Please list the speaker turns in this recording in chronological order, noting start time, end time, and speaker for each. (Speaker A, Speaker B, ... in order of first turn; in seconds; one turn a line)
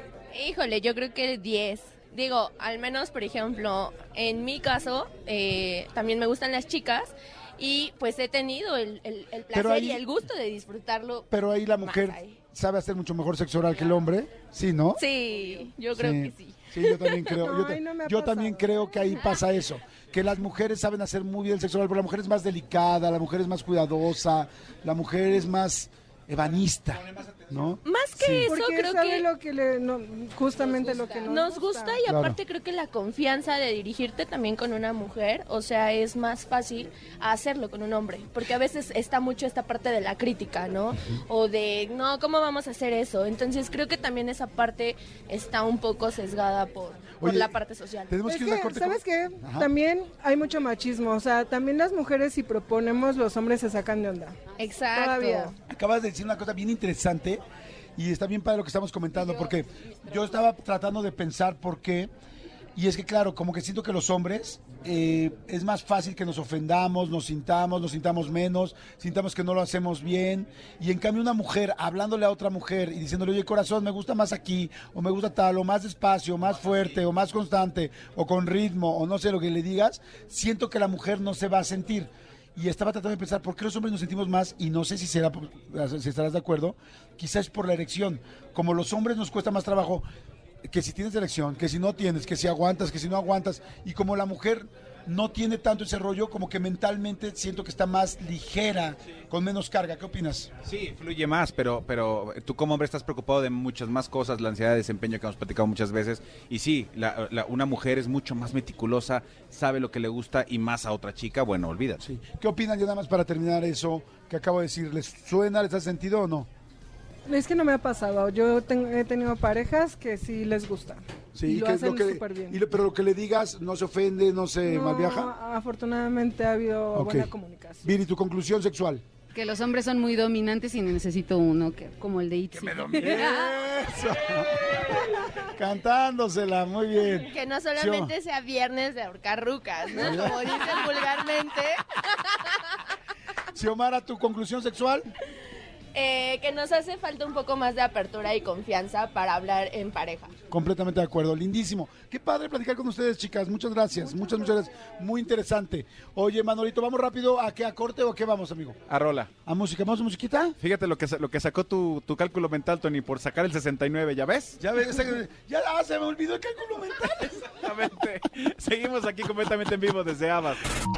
Speaker A: 0.3-12.4
Speaker B: 9.5-10.1
Speaker B: 11.3-15.0
Speaker A: 14.9-17.4
Speaker B: 15.9-28.5
Speaker C: 17.3-19.2
Speaker A: 19.2-19.4
Speaker A: 27.8-29.2
Speaker C: 28.4-32.0
Speaker A: 30.9-48.2
Speaker B: 32.0-32.4
Speaker B: 47.2-47.5
Speaker B: 48.1-49.7
Speaker C: 48.2-55.5
Speaker A: 54.6-55.5
Speaker B: 55.7-57.4
Speaker B: 58.0-62.1
Speaker B: 62.8-90.0
Speaker B: 90.7-100.5
Speaker D: 100.6-112.0
Speaker B: 112.0-116.5
Speaker C: 117.3-122.6
Speaker B: 121.3-125.3
Speaker C: 124.6-127.9
Speaker B: 126.9-127.3
Speaker B: 127.8-129.0
Speaker E: 129.3-133.5
Speaker B: 132.9-134.9
Speaker B: 135.4-138.1
Speaker A: 137.2-142.8
Speaker B: 140.0-140.4
Speaker B: 143.5-145.1
Speaker A: 145.9-150.3
Speaker B: 150.5-158.8
Speaker C: 154.0-154.9
Speaker D: 158.9-159.3
Speaker B: 159.4-160.6
Speaker D: 160.6-164.6
Speaker B: 164.6-167.4
Speaker D: 167.2-170.6